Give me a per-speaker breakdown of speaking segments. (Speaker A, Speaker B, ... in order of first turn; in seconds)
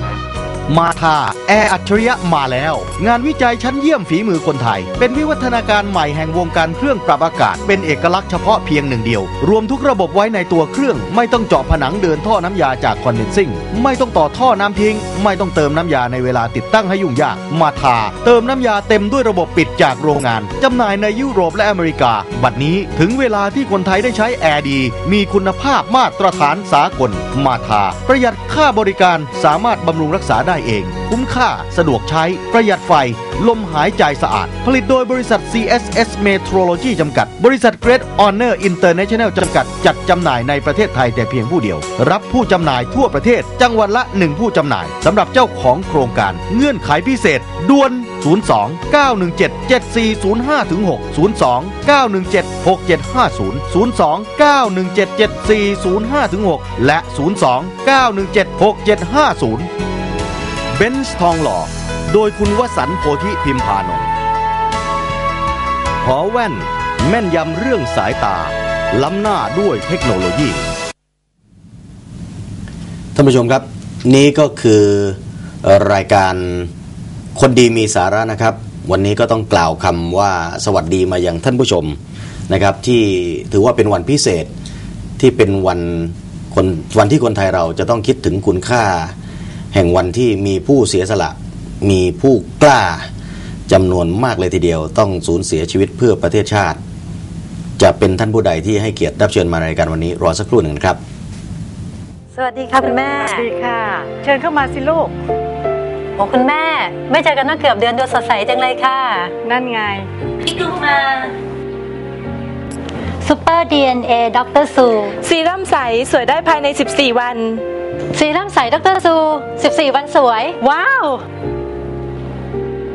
Speaker A: 0.7-59.7, 60.8-64.1, 66.0-70.6
Speaker B: 73.2-76.7, 77.3-82.0, 82.5-84.5, 85.2-89.1, 89.7-93.1, 93.7-96.8, 97.8-101.0
Speaker C: 102.3-103.5, 106.2-109.3, 110.5-111.3, 113.2-115.1, 118.1-121.2
Speaker D: 103.1-105.1, 109.4-110.1
Speaker E: 115.2-117.6